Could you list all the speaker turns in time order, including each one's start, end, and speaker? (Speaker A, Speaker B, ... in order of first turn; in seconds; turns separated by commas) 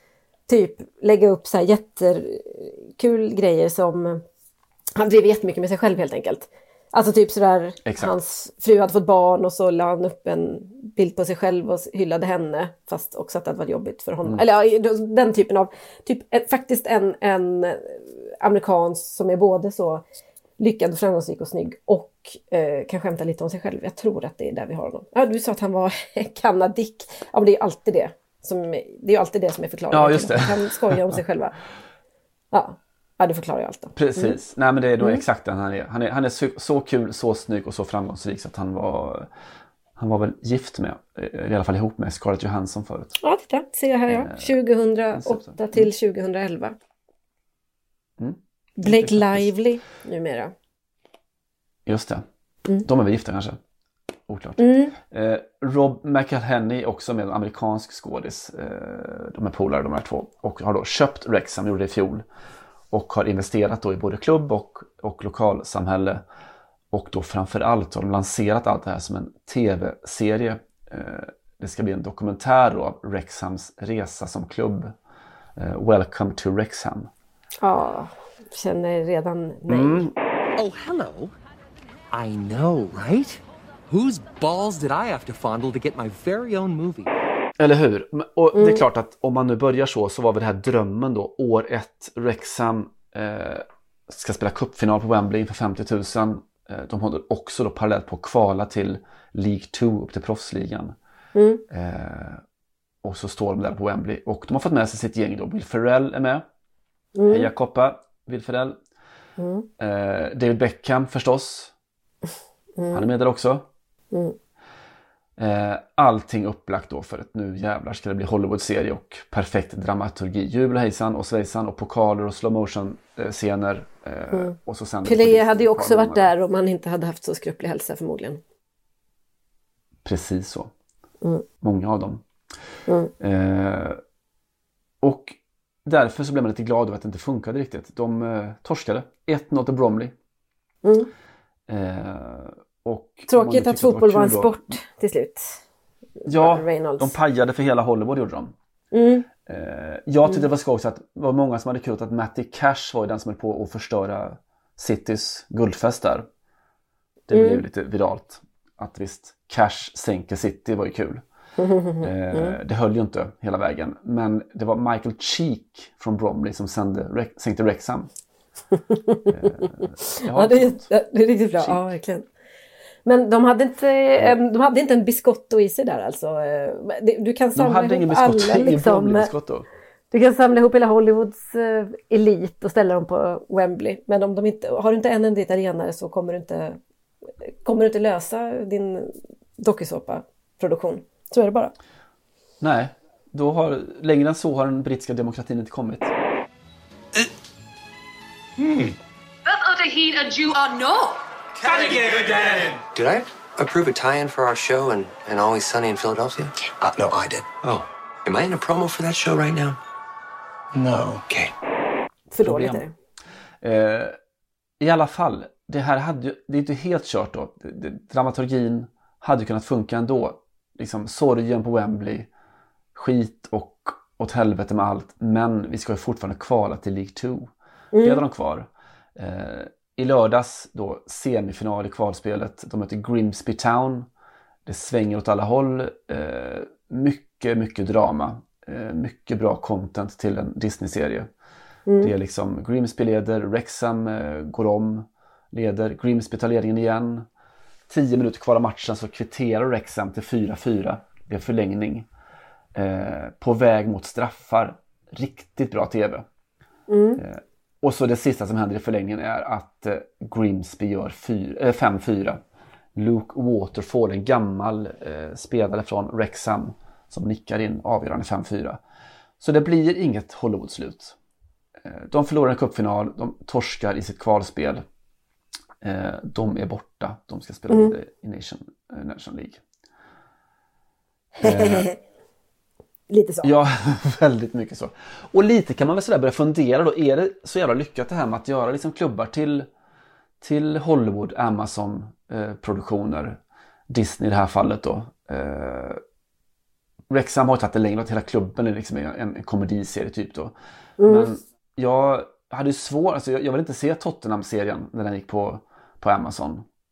Speaker A: 0.5-4.2, Speaker A: 5.0-20.0, Speaker B: 7.8-8.1, Speaker A: 20.6-31.6, Speaker B: 29.9-30.9, Speaker A: 32.5-34.4, Speaker B: 33.9-39.3, Speaker B: 40.0-43.1, Speaker A: 43.2-46.7, Speaker B: 44.1-44.5, Speaker B: 45.1-45.9, Speaker B: 48.2-49.5, Speaker A: 48.8-50.5, Speaker B: 51.9-52.2, Speaker B: 52.8-53.6, Speaker B: 54.3-62.2, Speaker A: 54.6-54.9, Speaker B: 62.9-66.2, Speaker B: 66.9-74.9, Speaker B: 75.6-77.1, Speaker A: 77.6-80.1, Speaker B: 79.7-80.1, Speaker C: 80.5-81.3, Speaker C: 82.1-87.1, Speaker B: 87.6-101.0, Speaker A: 88.5-88.8, Speaker A: 101.3-101.6, Speaker B: 101.7-102.4, Speaker B: 103.0-106.4, Speaker A: 107.2-107.5, Speaker B: 107.3-108.8, Speaker A: 109.4-109.7, Speaker B: 109.8-111.7, Speaker A: 112.8-113.0, Speaker B: 112.9-113.7, Speaker B: 115.4-126.3, Speaker A: 124.3-128.4, Speaker B: 130.0-130.7, Speaker B: 131.6-132.2, Speaker A: 132.9-133.1, Speaker B: 133.2-134.0, Speaker B: 135.0-140.1, Speaker A: 140.8-141.1, Speaker B: 141.7-144.8, Speaker A: 143.3-145.6, Speaker A: 146.2-147.1, Speaker B: 146.2-148.5, Speaker A: 148.9-149.3, Speaker B: 149.4-156.3, Speaker B: 157.3-161.2, Speaker A: 157.3-157.6, Speaker A: 161.6-162.6, Speaker B: 162.0-168.1, Speaker A: 168.9-172.2, Speaker B: 169.3-170.9, Speaker B: 171.6-171.8, Speaker A: 173.0-179.3, Speaker B: 177.6-179.7, Speaker A: 180.1-186.8, Speaker A: 187.6-191.7, Speaker B: 192.6-196.1, Speaker D: 199.4-202.7, Speaker E: 202.9-209.8, Speaker E: 210.8-211.5, Speaker A: 212.3-212.9, Speaker B: 212.4-212.8, Speaker B: 213.6-214.2, Speaker B: 214.8-222.3, Speaker B: 222.9-227.5, Speaker A: 227.9-228.2, Speaker B: 228.0-234.1, Speaker B: 234.7-241.3, Speaker A: 241.9-242.1, Speaker B: 242.0-247.2, Speaker B: 247.9-252.1, Speaker B: 252.7-256.2, Speaker A: 256.9-257.2, Speaker B: 257.1-262.4, Speaker B: 262.9-268.8, Speaker B: 269.4-271.1, Speaker B: 271.8-274.8, Speaker B: 275.8-279.6, Speaker A: 281.4-281.9, Speaker B: 281.4-281.9, Speaker A: 283.1-283.5, Speaker B: 283.4-289.7, Speaker B: 290.4-296.0, Speaker B: 297.1-306.6, Speaker A: 301.0-301.3